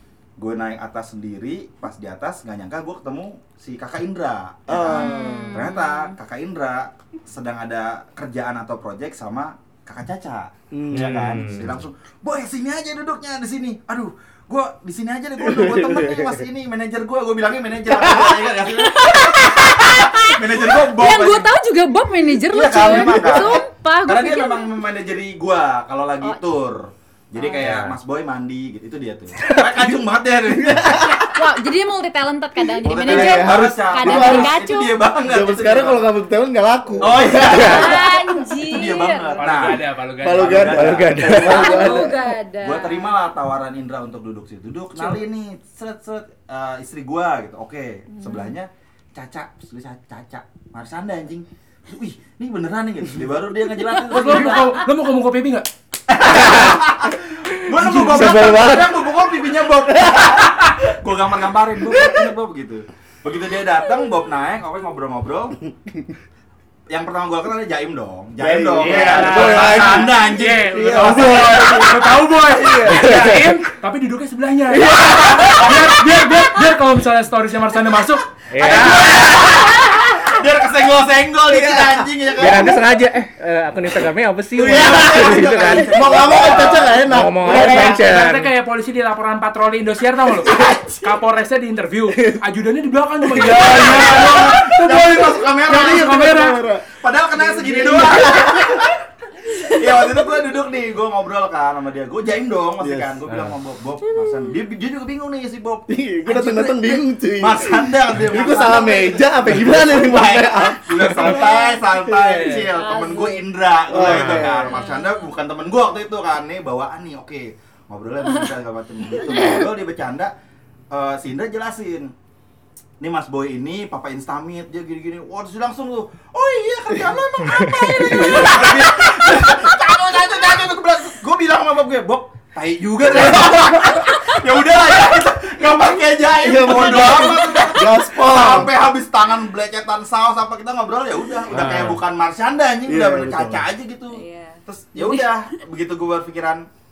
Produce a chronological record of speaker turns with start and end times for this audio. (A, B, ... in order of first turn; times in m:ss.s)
0:00.4-0:21.5 A
0:04.7-0:05.7 B
0:04.9-0:06.1 C
0:10.7-0:11.6 B
0:10.9-0:11.7 D
0:15.5-0:16.3 B
0:18.7-0:24.7 C
0:22.5-0:31.4 A
0:27.4-0:27.6 C
0:27.6-0:28.0 D
0:30.6-0:31.2 B
0:31.3-0:35.0 C
0:32.8-0:36.1 A
0:32.9-0:34.6 B
0:35.2-0:38.2 B
0:37.0-0:54.8 A
0:37.4-0:38.0 D
0:37.5-0:39.5 C
0:39.4-0:40.7 E
0:40.2-0:42.3 B
0:40.6-0:41.8 D
0:41.4-0:43.2 C
0:48.1-0:48.5 C
0:53.9-0:54.9 C
0:54.1-0:55.7 E
0:56.1-1:05.6 A
0:56.3-0:56.7 B
0:57.8-0:58.3 E
0:58.0-0:59.0 B
0:58.2-0:58.9 D
1:00.0-1:00.3 B
1:06.9-1:11.2 A
1:08.4-1:13.2 B
1:08.8-1:18.3 E
1:12.8-1:13.4 D
1:14.8-1:15.7 D
1:14.9-1:15.3 B
1:18.5-1:19.2 D
1:18.6-1:22.8 A
1:21.5-1:22.8 B
1:22.4-1:26.2 D
1:24.5-1:28.1 B
1:24.6-1:27.2 A
1:27.0-1:28.5 D
1:27.4-1:36.6 E
1:30.5-1:31.0 B
1:33.3-1:34.7 B
1:33.4-1:36.1 A
1:35.6-1:36.9 B
1:36.9-1:38.9 A
1:37.4-1:38.3 E
1:37.8-1:38.8 B
1:39.6-1:39.8 C
1:39.6-2:00.3 A
1:42.8-1:43.2 B
1:45.9-1:51.7 B
1:51.1-1:53.5 C
1:53.9-1:54.8 B
1:54.0-1:54.5 D
1:54.6-1:55.2 C
1:59.2-1:59.6 C
2:00.9-2:02.1 A
2:03.0-2:26.7 A
2:08.2-2:08.5 B
2:08.2-2:09.5 C
2:13.1-2:13.8 B
2:14.1-2:14.4 C
2:16.4-2:18.7 B
2:16.6-2:17.8 C
2:21.5-2:22.0 D
2:22.9-2:23.7 B
2:24.1-2:25.6 C